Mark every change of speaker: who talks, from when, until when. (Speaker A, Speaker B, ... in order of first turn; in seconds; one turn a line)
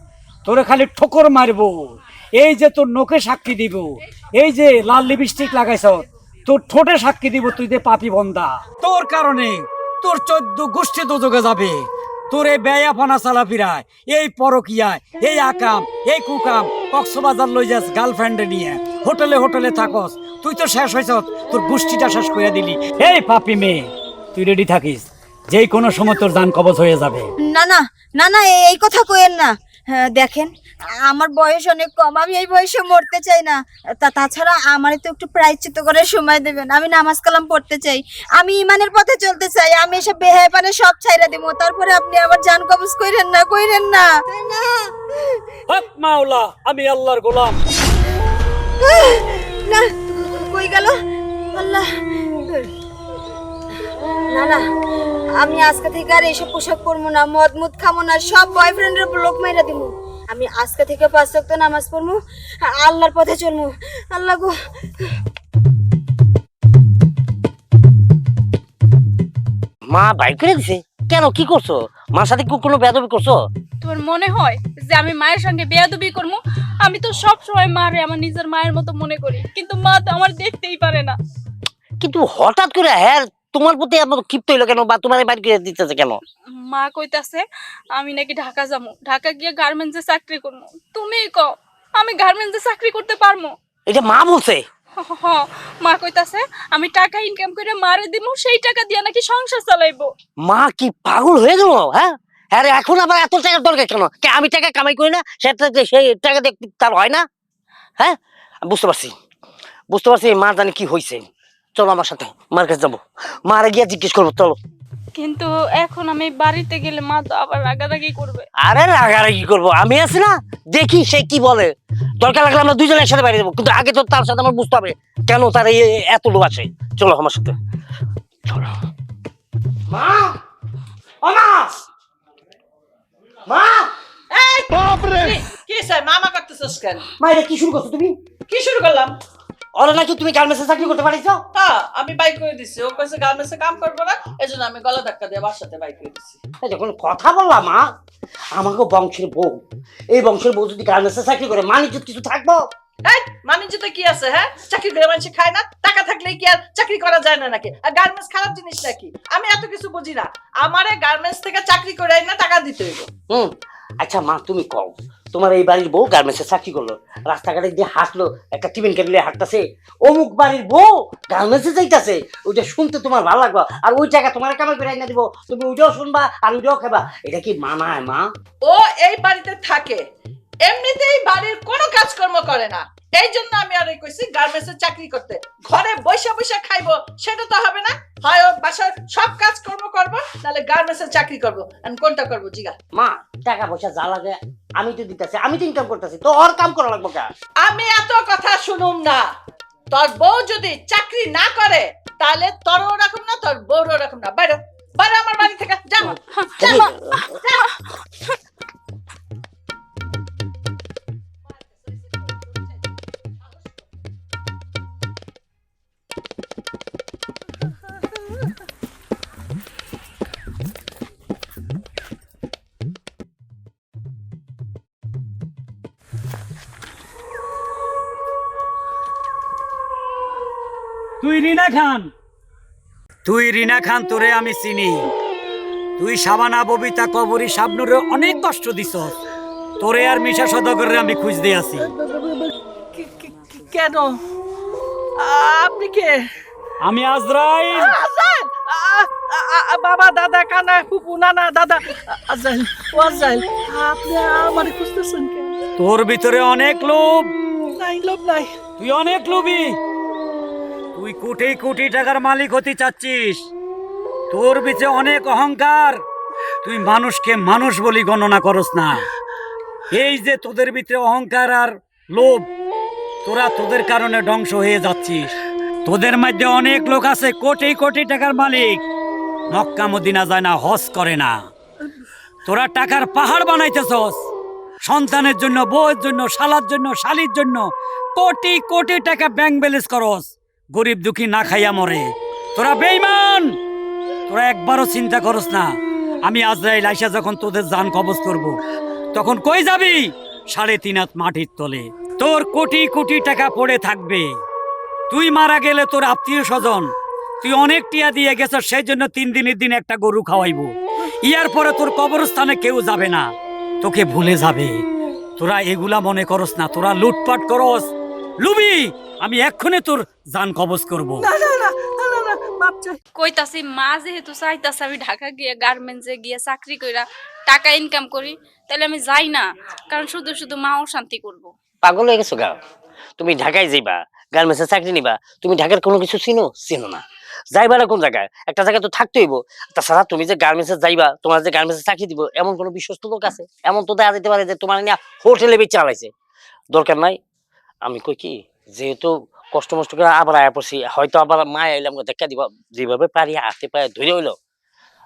Speaker A: 0.5-27.3
Speaker B: 27.5-30.5
Speaker B: 31.1-45.4
Speaker A: 45.7-47.6
Speaker B: 48.8-51.0
Speaker B: 51.5-51.9
Speaker B: 54.3-54.6
Speaker B: 55.4-64.5
Speaker C: 69.9-73.4
Speaker D: 73.8-81.2
Speaker C: 82.0-86.2
Speaker D: 86.7-87.4
Speaker D: 88.0-93.5
Speaker C: 93.9-94.6
Speaker D: 95.1-100.1
Speaker C: 100.5-107.2
Speaker C: 108.0-109.1
Speaker C: 109.9-114.6
Speaker D: 115.2-118.5
Speaker C: 118.6-127.5
Speaker C: 129.9-130.4
Speaker C: 131.2-131.7
Speaker C: 133.5-133.9
Speaker E: 134.3-137.1
Speaker C: 137.2-138.2
Speaker E: 138.5-139.1
Speaker C: 139.8-141.4
Speaker E: 141.5-146.4
Speaker C: 146.6-147.8
Speaker C: 148.6-149.6
Speaker C: 150.1-152.6
Speaker E: 153.1-163.1
Speaker C: 163.3-178.3
Speaker E: 178.6-180.0
Speaker E: 180.7-192.8
Speaker C: 192.9-197.3
Speaker E: 197.6-199.2
Speaker E: 199.9-206.8
Speaker C: 206.1-207.3
Speaker D: 206.3-207.7
Speaker A: 231.2-232.1
Speaker A: 233.2-235.1
Speaker A: 236.0-239.2
Speaker A: 239.8-241.9
Speaker E: 241.9-244.2
Speaker E: 245.2-246.2
Speaker A: 246.8-247.9
Speaker E: 247.7-255.6
Speaker A: 255.8-257.3
Speaker E: 257.8-258.5
Speaker A: 258.8-259.8
Speaker A: 260.9-263.5
Speaker A: 264.3-266.0
Speaker A: 266.6-269.1
Speaker A: 269.9-272.5
Speaker A: 273.2-275.3
Speaker A: 275.9-278.8
Speaker A: 279.5-281.3
Speaker A: 282.5-284.2
Speaker A: 284.9-293.6
Speaker A: 294.3-295.7
Speaker A: 296.2-298.6
Speaker A: 299.1-304.3
Speaker A: 305.1-313.3
Speaker A: 313.8-314.8
Speaker A: 315.4-321.3
Speaker E: 321.2-323.0
Speaker D: 323.1-331.5
Speaker C: 331.8-332.5
Speaker C: 333.2-346.1
Speaker C: 346.7-347.2
Speaker C: 347.8-354.4